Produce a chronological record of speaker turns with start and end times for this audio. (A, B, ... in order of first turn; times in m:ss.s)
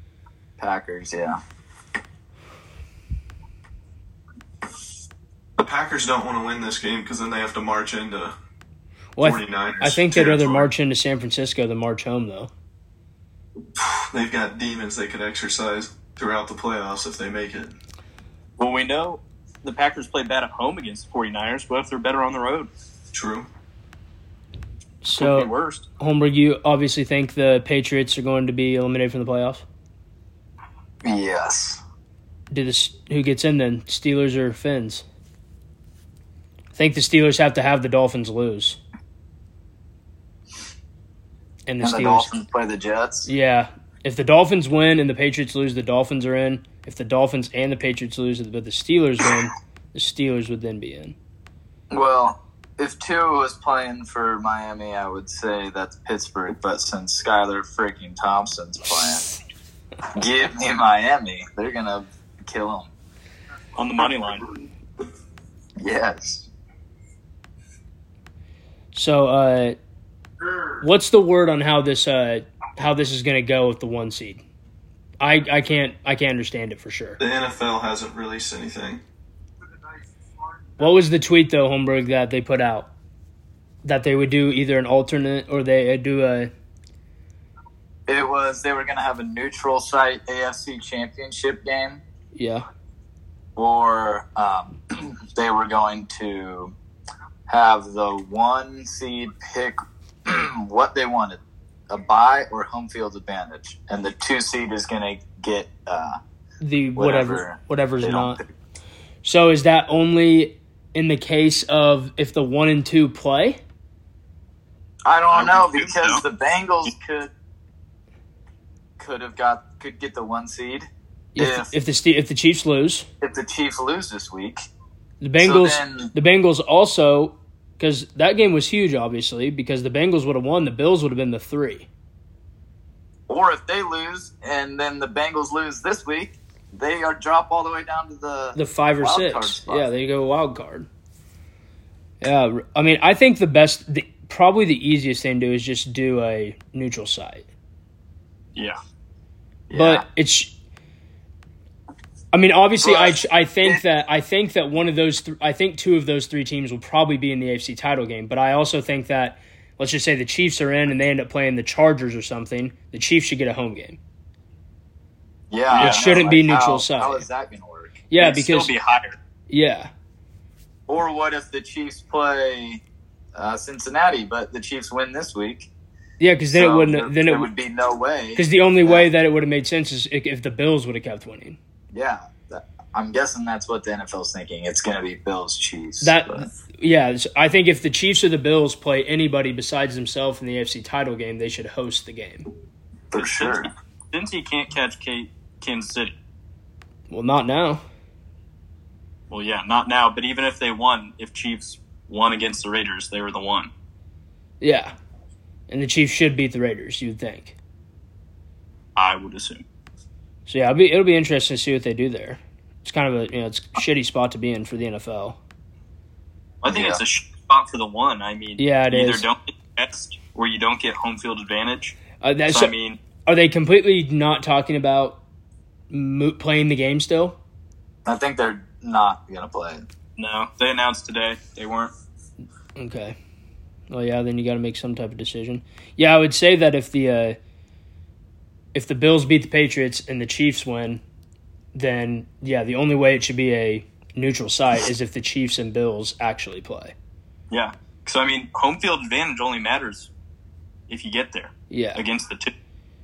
0:00.6-0:01.4 A
0:05.6-0:08.3 B
0:09.2-0:12.5 C
0:09.2-0:10.7 B
0:13.7-0:17.7 B
0:18.6-0:22.7 D
0:23.1-0:23.5 B
0:25.0-0:29.6 C
0:25.2-0:25.8 D
0:31.0-0:31.8 A
0:32.5-0:35.0 C
0:36.7-0:38.8 C
0:41.7-0:42.3 C
0:41.8-0:43.3 A
0:43.2-0:51.2 C
0:51.9-0:59.3 A
1:00.1-1:02.9 A
1:03.8-1:04.5 D
1:05.8-1:06.5 A
1:08.9-1:09.8 C
1:10.8-1:14.4 C
1:15.2-1:17.2 C
1:17.2-1:19.0 B
1:20.8-1:22.9 C
1:23.8-1:26.5 C
1:28.1-1:32.0 A
1:32.3-1:32.6 C
1:33.6-1:36.7 A
1:37.5-1:41.4 A
1:41.9-1:46.2 A
1:46.6-1:48.4 C
1:47.0-1:48.5 A
1:49.2-1:53.6 C
1:55.0-1:57.3 A
1:55.3-1:56.2 D
1:59.0-2:01.7 A
2:01.3-2:03.1 C
2:03.2-2:04.6 A
2:05.2-2:11.9 C
2:05.4-2:06.1 A
2:13.3-2:19.8 A
2:18.5-2:20.9 C
2:22.2-2:27.5 C
2:29.7-2:30.0 A
2:29.7-2:30.5 C
2:32.3-2:44.0 C
2:32.8-2:33.8 A
2:45.5-2:48.0 A
2:45.7-2:46.1 D
2:45.7-2:47.3 C
2:48.1-2:48.7 C
2:48.2-2:49.2 D
2:49.5-2:49.9 C
2:50.9-2:52.8 A
2:53.4-2:55.7 A
2:56.2-2:57.5 C
2:56.5-2:59.1 A
2:58.4-3:01.6 C
3:01.9-3:06.5 A
3:06.0-3:12.4 C
3:13.1-3:13.7 A
3:13.1-3:16.1 D
3:17.1-3:17.8 C
3:19.3-3:23.7 D
3:24.6-3:24.9 C
3:25.7-3:27.6 C
3:29.0-3:29.6 D
3:30.5-3:35.4 C
3:36.6-3:42.0 D
3:36.7-3:37.0 A
3:38.6-3:39.3 C
3:42.2-3:42.7 C
3:42.5-3:43.0 D
3:43.2-3:45.2 C
3:45.9-3:47.4 C
3:48.0-3:49.8 A
3:50.2-3:51.9 D
3:52.8-3:53.2 C
3:53.9-3:57.4 C
3:58.7-4:01.0 C
4:01.7-4:06.9 C
4:07.5-4:10.1 D
4:10.9-4:12.5 D
4:11.7-4:12.0 C